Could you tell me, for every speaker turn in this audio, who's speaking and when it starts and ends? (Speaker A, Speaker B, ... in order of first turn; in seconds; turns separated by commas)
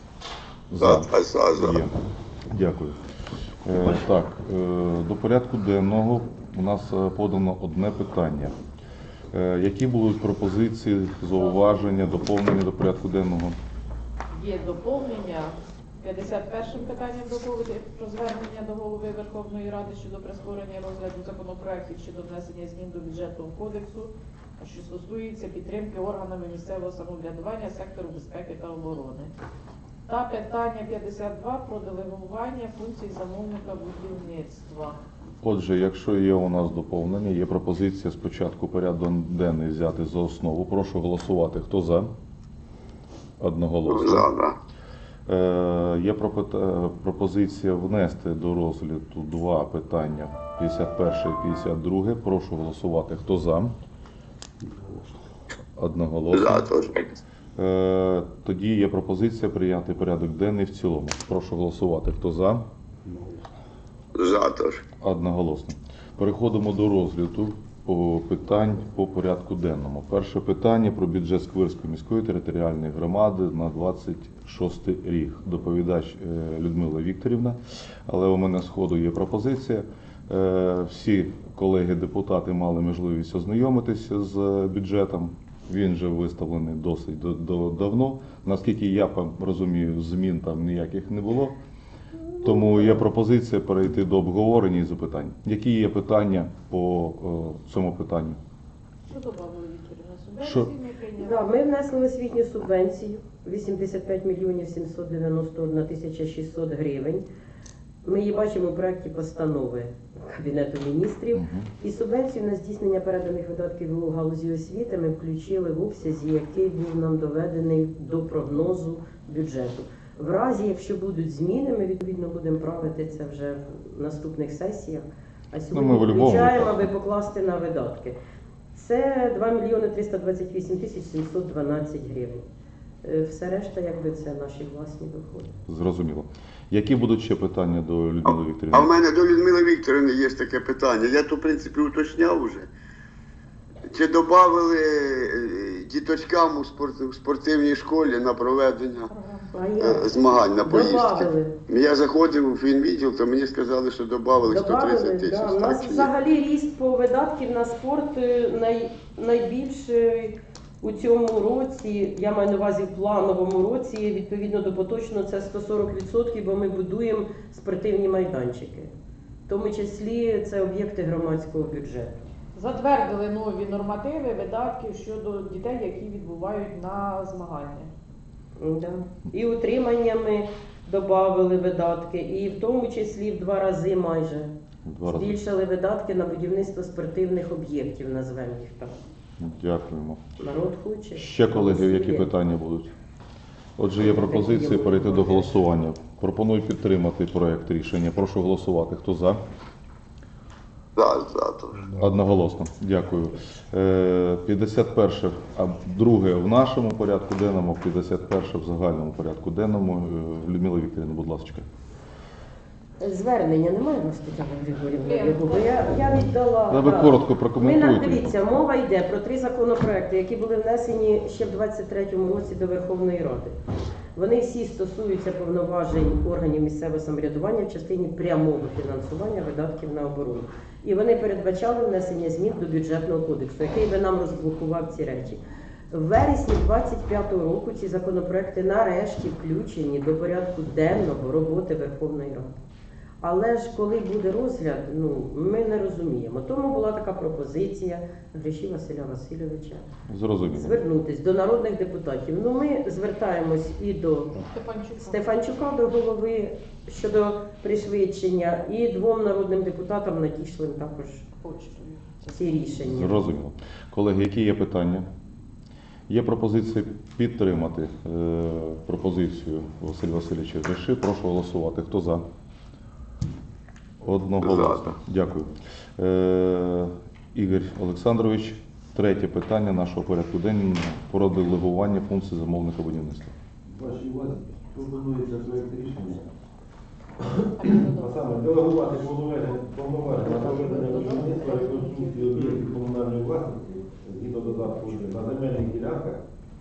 Speaker A: 0.7-3.0, Speaker B: 0.8-1.8, Speaker A: 3.6-8.6, Speaker A: 9.3-13.6, Speaker C: 11.3-12.0, Speaker C: 14.3-29.3, Speaker C: 30.1-35.0, Speaker A: 35.4-42.1, Speaker A: 43.4-44.3, Speaker B: 43.9-44.6, Speaker A: 45.3-53.8, Speaker A: 55.8-56.7, Speaker B: 56.3-57.2, Speaker A: 57.6-62.6, Speaker B: 64.1-64.8, Speaker A: 65.0-91.6, Speaker A: 92.4-98.4, Speaker C: 99.1-101.5, Speaker A: 100.4-100.7, Speaker D: 101.2-107.2, Speaker D: 108.0-128.2, Speaker A: 111.3-111.7, Speaker A: 125.7-126.9, Speaker D: 128.7-132.4, Speaker D: 133.0-135.5, Speaker A: 135.7-138.9, Speaker B: 138.2-142.7, Speaker B: 143.8-149.1, Speaker C: 149.1-149.5, Speaker D: 149.5-151.6, Speaker B: 149.8-156.1, Speaker D: 154.5-168.9, Speaker D: 169.5-172.2, Speaker C: 172.6-177.9, Speaker D: 178.6-184.5, Speaker A: 184.9-185.3, Speaker D: 185.1-189.0, Speaker A: 189.4-190.2, Speaker D: 190.4-192.3, Speaker A: 191.2-192.9, Speaker A: 193.8-199.4, Speaker D: 194.0-195.6, Speaker B: 201.0-201.9, Speaker A: 201.9-211.7, Speaker D: 213.0-223.6, Speaker C: 215.0-215.9, Speaker A: 216.7-218.3, Speaker D: 224.2-242.5, Speaker D: 243.2-249.9, Speaker A: 250.1-250.8, Speaker D: 250.5-254.4, Speaker C: 254.5-255.3, Speaker D: 255.0-261.3, Speaker C: 261.4-262.8, Speaker D: 262.3-263.3, Speaker A: 262.9-265.1, Speaker A: 266.1-272.2, Speaker A: 274.0-283.3, Speaker B: 274.4-274.8, Speaker E: 283.7-286.3, Speaker E: 287.2-296.2, Speaker C: 287.5-288.2, Speaker C: 290.1-292.5